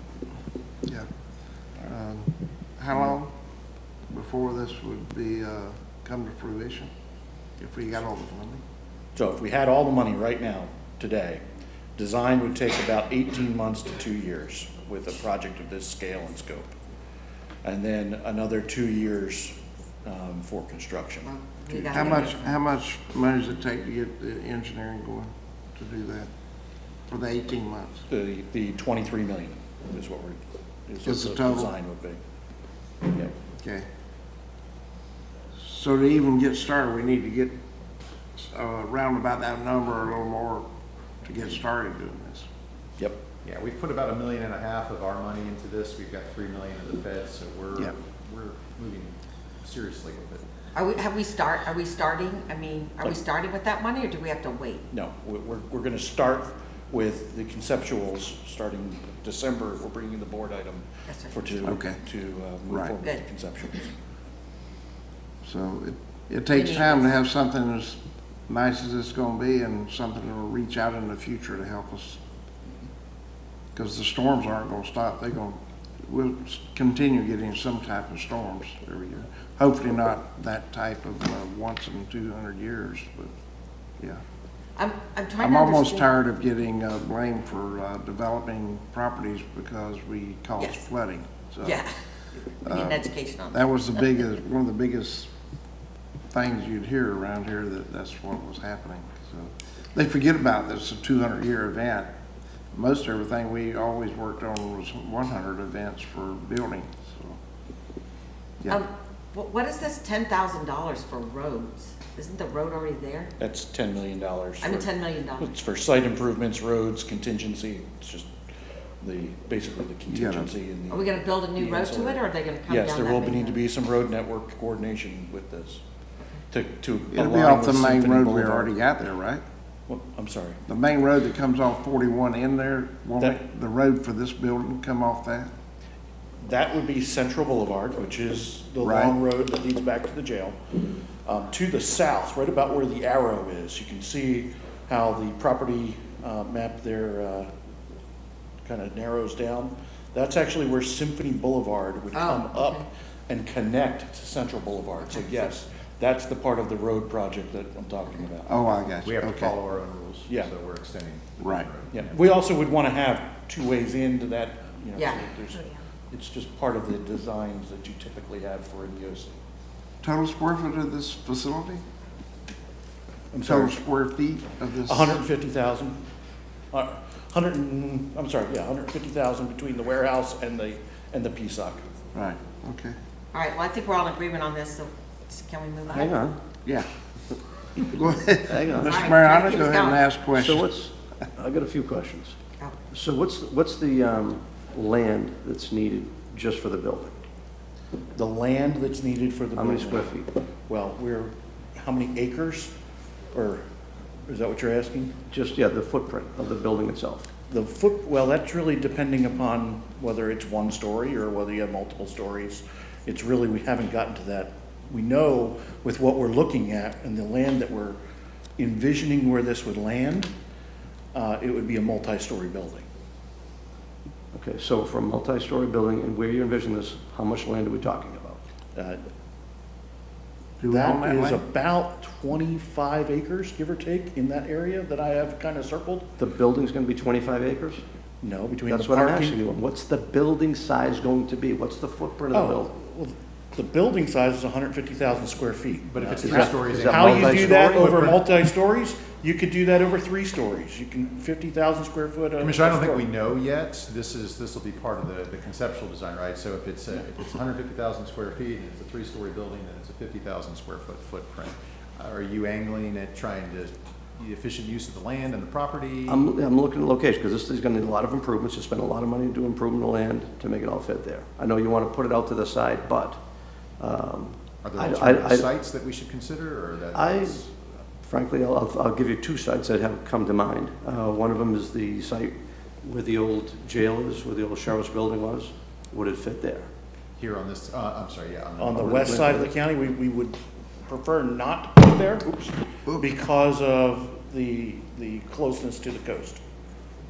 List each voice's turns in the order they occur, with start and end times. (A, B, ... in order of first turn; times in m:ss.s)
0:01.8-0:03.3 A
0:04.1-0:06.9 A
0:07.6-0:08.6 A
0:09.1-0:11.4 B
0:12.0-0:16.7 B
0:17.6-0:22.3 B
0:21.2-0:22.6 C
0:21.9-0:26.3 A
0:27.1-0:28.0 A
0:28.1-0:32.2 B
0:31.0-0:31.7 A
0:33.1-0:33.3 B
0:33.6-0:33.8 A
0:35.6-0:37.5 A
0:38.4-0:40.6 A
0:41.2-0:42.5 A
0:43.4-0:50.4 D
0:50.7-0:54.8 C
0:54.9-1:03.9 B
1:01.1-1:01.6 C
1:01.6-1:02.0 A
1:02.7-1:02.9 A
1:05.4-1:12.2 A
1:06.5-1:07.2 C
1:13.7-1:23.3 A
1:24.8-1:26.1 C
1:25.4-1:31.8 A
1:30.6-1:30.8 C
1:31.6-1:31.9 C
1:32.6-1:34.2 C
1:32.6-1:35.3 A
1:36.3-1:42.1 A
1:42.7-1:47.4 A
1:48.7-1:53.3 C
1:53.4-1:58.3 B
1:54.6-1:55.5 C
1:59.0-2:05.8 B
2:00.1-2:00.5 A
2:00.9-2:03.6 C
2:06.5-2:08.7 B
2:07.1-2:09.4 A
2:09.9-2:10.6 B
2:10.7-2:15.5 A
2:16.4-2:20.6 B
2:18.8-2:19.2 A
2:21.2-2:27.5 B
2:28.6-2:38.6 B
2:32.1-2:32.8 C
2:35.0-2:35.5 C
2:38.5-2:39.5 A
2:39.0-2:42.2 D
2:41.4-2:41.7 A
2:41.9-2:49.4 B
2:44.9-2:45.7 C
2:50.0-2:51.8 A
2:53.3-2:53.8 B
2:53.4-2:55.2 A
2:54.8-2:56.0 B
2:56.7-3:01.8 B
3:02.1-3:03.0 A
3:03.3-3:06.1 C
3:05.9-3:06.4 E
3:07.8-3:10.7 A
3:08.5-3:09.2 E
3:08.8-3:10.0 C
3:10.3-3:12.4 E
3:12.9-3:17.2 E
3:18.1-3:22.7 B
3:19.5-3:20.3 E
3:23.3-3:23.6 B
3:24.3-3:25.1 B
3:25.3-3:27.3 E
3:27.5-3:38.0 B
3:38.6-3:40.3 B
3:41.1-3:42.8 B
3:44.3-3:48.4 E
3:48.7-3:49.1 B
3:50.6-3:51.4 A
3:50.6-3:56.1 B
3:56.2-3:57.8 E
3:58.2-3:59.4 B
3:58.6-4:02.7 E
4:02.3-4:13.1 B
4:05.8-4:08.2 D
4:06.2-4:08.1 E
4:12.4-4:26.2 D
4:26.1-4:33.2 E
4:33.8-4:35.5 E
4:34.6-4:37.5 D
4:36.9-4:37.5 E
4:38.0-4:46.7 E
4:47.2-4:49.2 D
4:48.6-4:56.4 B
4:48.7-4:49.5 E